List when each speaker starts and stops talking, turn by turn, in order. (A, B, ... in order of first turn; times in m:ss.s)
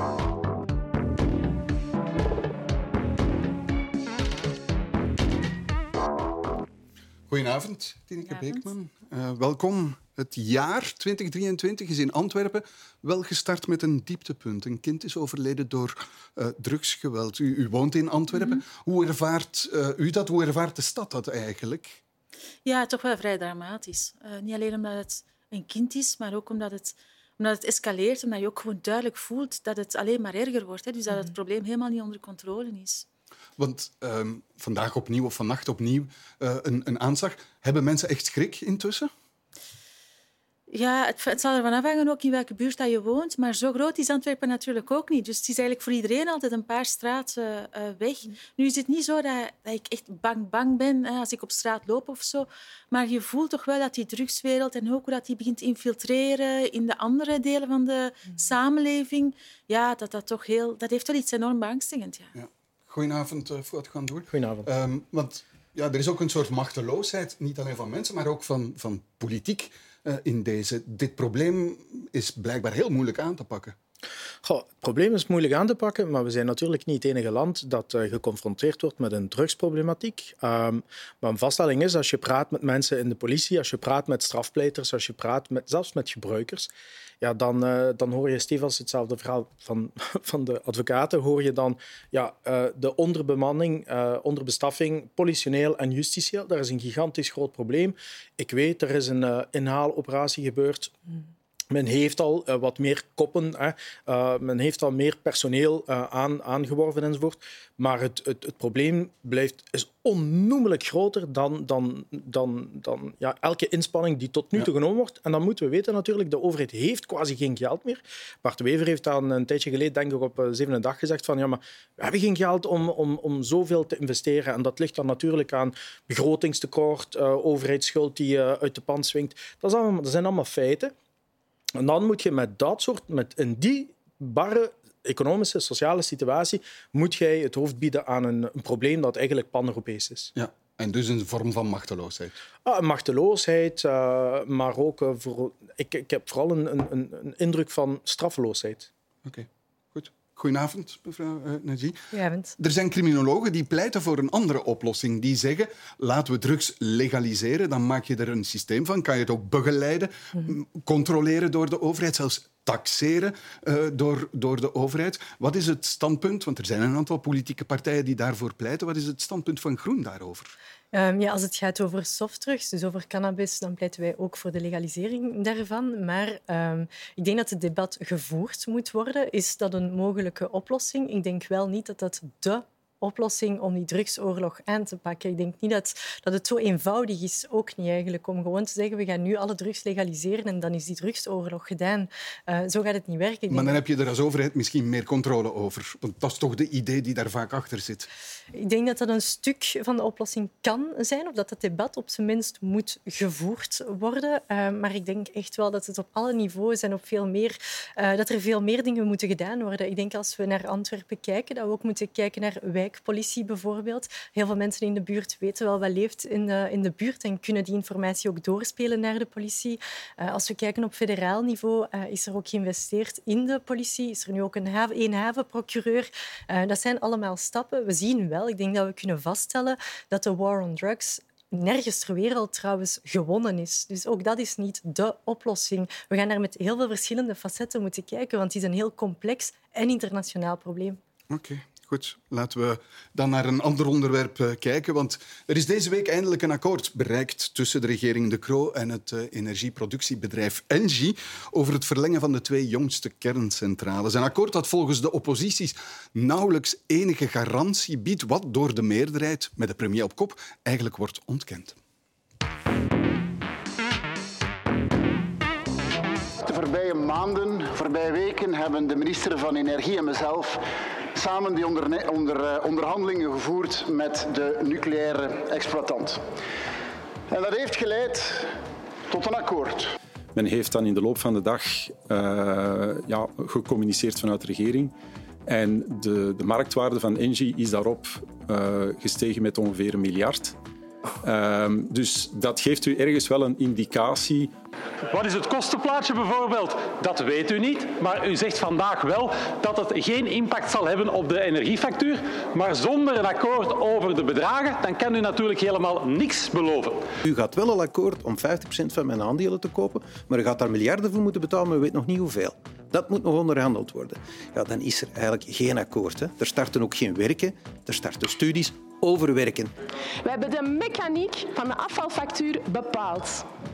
0:07.3-0:22.0 A
0:08.3-0:08.6 B
0:22.6-0:33.0 B
0:33.6-0:39.1 A
0:40.7-1:02.3 B
1:02.3-1:13.8 A
1:04.3-1:04.7 C
1:14.4-1:26.7 C
1:27.2-1:40.9 C
1:41.7-2:10.9 C
2:11.8-2:20.3 C
2:20.3-2:22.3 A
2:22.6-2:28.9 C
2:29.2-2:32.0 A
2:32.1-2:32.6 D
2:32.6-2:50.5 A
2:50.9-3:13.8 D
3:13.5-3:18.1 A
3:18.5-4:01.0 D
4:01.3-4:21.8 A
4:26.4-4:30.6 E
4:31.1-4:36.2 E
4:37.3-4:38.5 E
4:39.1-4:39.9 E
4:40.3-4:44.9 F
4:45.5-4:50.6 F
4:51.2-4:54.5 F
4:55.1-5:07.1 G
5:07.2-5:19.7 H
5:20.2-5:23.4 I